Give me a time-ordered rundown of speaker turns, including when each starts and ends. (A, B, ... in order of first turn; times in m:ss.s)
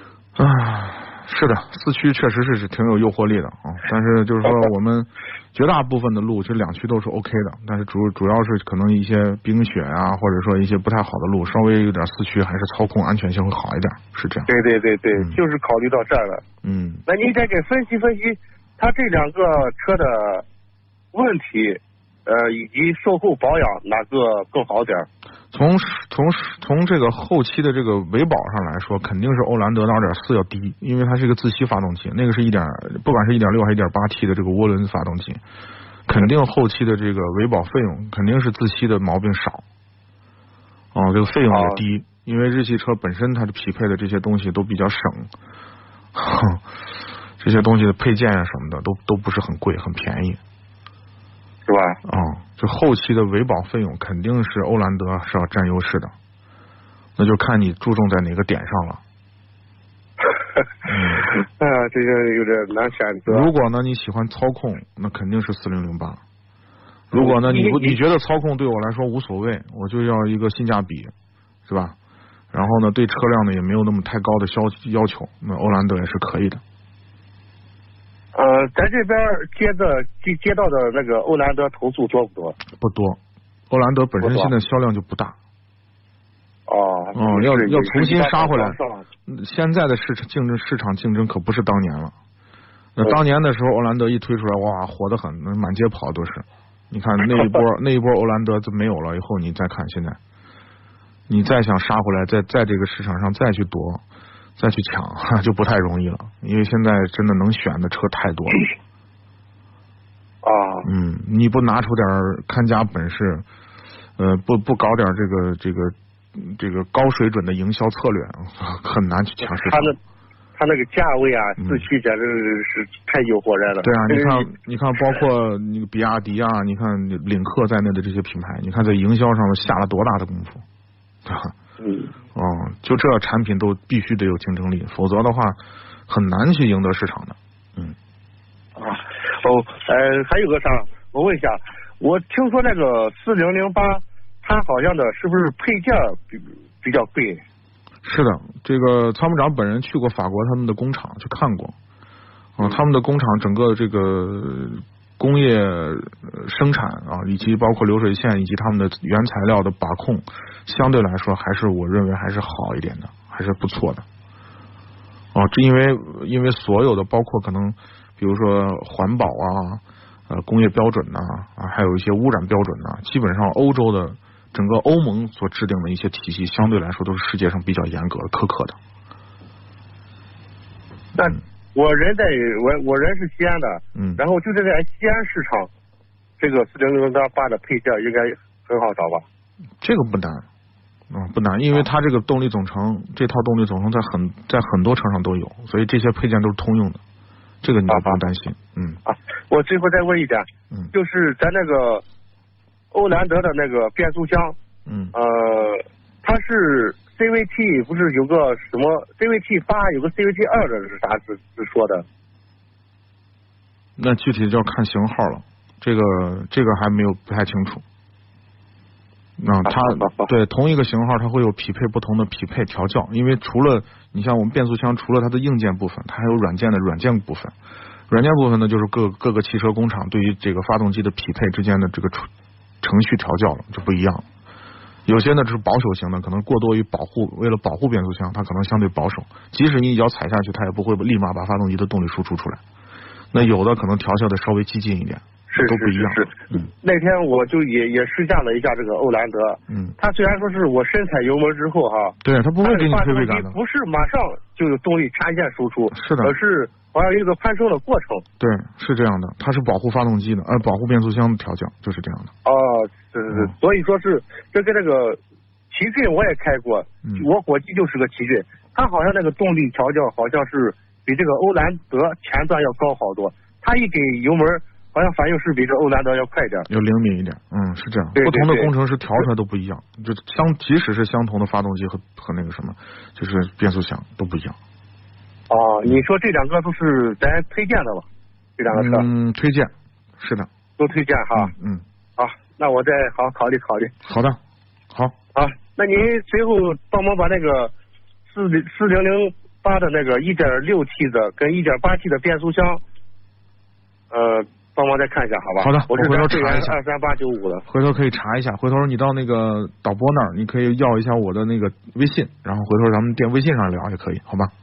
0:00.4-0:14.5 A
0:14.5-0:16.4 B
0:15.1-0:15.4 A
0:16.6-0:17.0 A
0:17.0-0:20.4 B
0:21.1-0:25.1 B
0:25.5-0:35.4 A
0:36.0-0:39.6 A
0:40.9-0:45.3 A
0:41.5-0:41.8 B
0:46.1-0:46.6 A
0:47.4-0:50.4 A
0:51.6-0:52.0 B
0:52.0-0:56.1 A
0:57.2-0:59.0 A
1:00.8-1:01.3 A
1:01.3-1:03.5 B
1:03.2-1:06.2 A
1:07.1-1:11.1 A
1:07.1-1:08.0 B
1:11.7-1:11.9 A
1:12.5-1:16.6 A
1:18.3-1:22.6 B
1:22.8-1:23.2 A
1:23.7-1:25.4 A
1:24.2-1:24.5 B
1:26.7-1:29.0 B
1:27.1-1:32.1 A
1:33.0-1:40.2 A
1:41.3-1:44.0 A
1:44.6-1:48.7 A
1:50.4-1:50.9 B
1:50.8-1:53.4 A
1:54.2-2:00.0 A
1:59.4-2:00.0 B
2:00.6-2:04.5 B
2:01.6-2:01.9 A
2:03.8-2:10.6 A
2:11.2-2:11.5 A
2:11.8-2:12.1 B
2:12.3-2:17.9 A
2:18.8-2:27.4 B
2:28.0-2:31.7 A
2:32.6-2:44.0 A
2:45.3-2:58.8 A
3:01.1-3:05.7 B
3:03.9-3:04.2 A
3:06.4-3:09.2 B
3:09.8-3:10.4 A
3:11.1-3:17.0 A
3:17.6-3:19.0 A
3:17.9-3:18.2 B
3:19.0-3:22.0 B
3:22.9-3:24.6 B
3:24.8-3:25.1 A
3:25.1-3:32.0 B
3:34.0-3:37.8 A
3:39.4-3:47.5 A
3:39.6-3:40.3 B
3:48.1-3:52.3 A
3:52.8-3:54.2 A
3:55.0-4:02.6 A
4:03.3-4:06.7 A
4:05.5-4:18.2 B
4:09.7-4:10.0 A
4:12.2-4:13.6 A
4:15.9-4:16.3 A
4:18.4-4:22.3 A
4:22.4-4:25.2 B
4:25.7-4:36.7 B
4:36.7-4:44.6 A
4:38.1-4:39.2 B
4:45.5-4:48.0 B
4:48.6-4:49.1 B
4:48.7-4:50.5 A
4:50.8-4:51.5 B
4:51.3-4:51.8 A
4:52.2-4:53.9 B
4:54.0-4:54.4 A
4:55.3-4:57.7 B
4:58.3-5:02.8 B
5:04.1-5:07.6 B
5:05.6-5:06.8 A
5:07.7-5:14.5 A